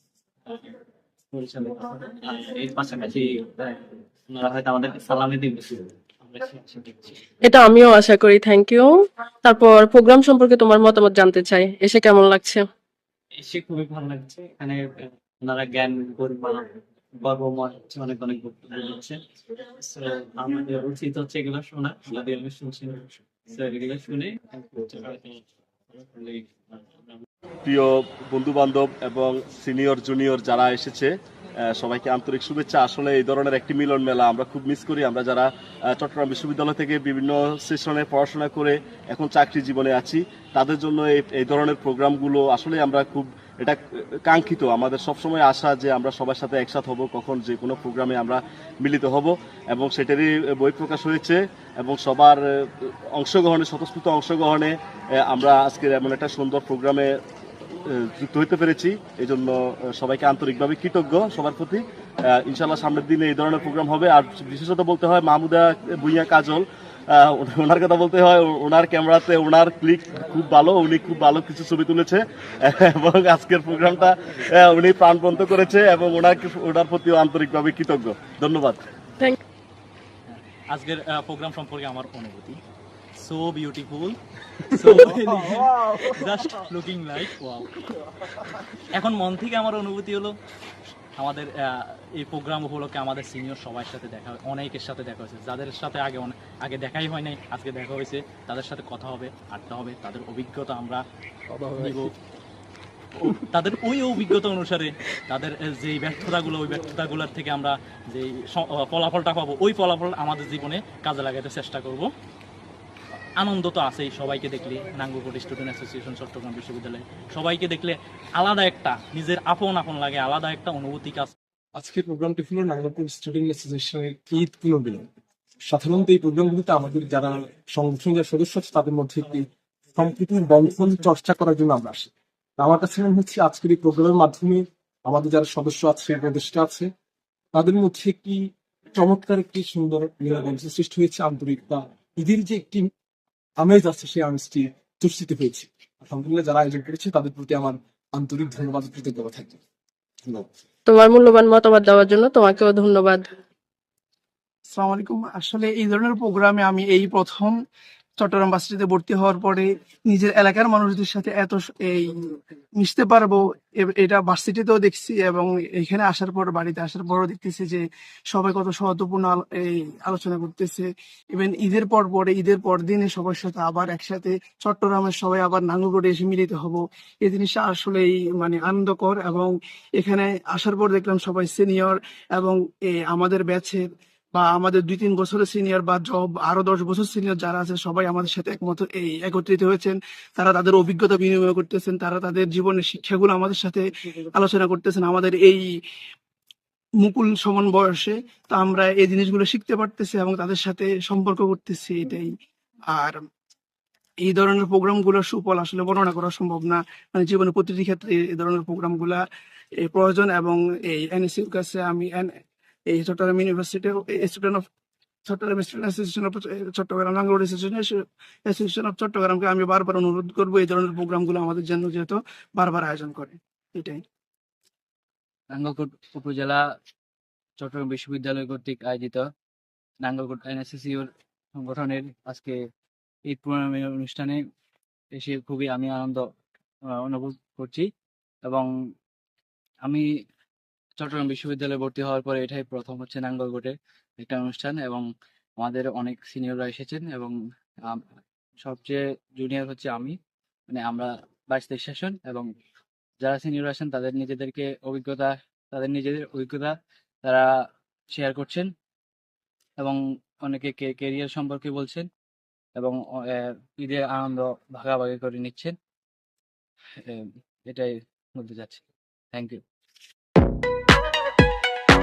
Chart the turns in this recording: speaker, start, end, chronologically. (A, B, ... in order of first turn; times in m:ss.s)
0:00.5-0:00.8 A
0:01.3-0:07.2 A
0:07.4-0:08.9 B
0:09.4-0:12.6 B
0:13.3-0:25.4 A
0:25.9-0:26.5 A
0:27.6-0:57.1 C
0:57.9-1:18.8 C
1:20.3-1:22.6 D
1:23.2-1:24.2 D
1:24.7-1:27.8 D
1:29.0-1:30.3 D
1:31.2-1:41.0 D
1:41.5-1:42.1 E
1:41.8-1:42.1 D
1:43.2-1:52.1 D
1:53.4-2:01.3 D
2:01.8-2:05.1 E
2:05.7-2:16.9 E
2:17.5-2:22.9 E
2:23.6-2:29.6 E
2:30.9-2:33.2 B
2:34.7-2:37.5 F
2:38.2-3:15.6 F
3:17.0-3:22.3 F
3:22.9-3:23.2 F
3:24.2-3:29.2 F
3:29.8-3:32.3 F
3:32.9-3:34.6 F
3:35.3-3:44.0 F
3:45.5-3:46.6 G
3:47.6-3:49.2 G
3:50.0-3:52.6 G
3:53.3-3:54.4 G
3:55.1-3:56.3 G
3:56.9-3:57.9 G
3:58.4-3:58.7 G
4:01.0-4:05.1 G
4:05.6-4:08.0 G
4:08.6-4:10.2 G
4:10.7-4:12.5 G
4:13.2-4:17.5 G
4:18.1-4:18.7 G
4:19.8-4:22.1 G
4:22.8-4:25.8 G
4:27.0-4:29.6 G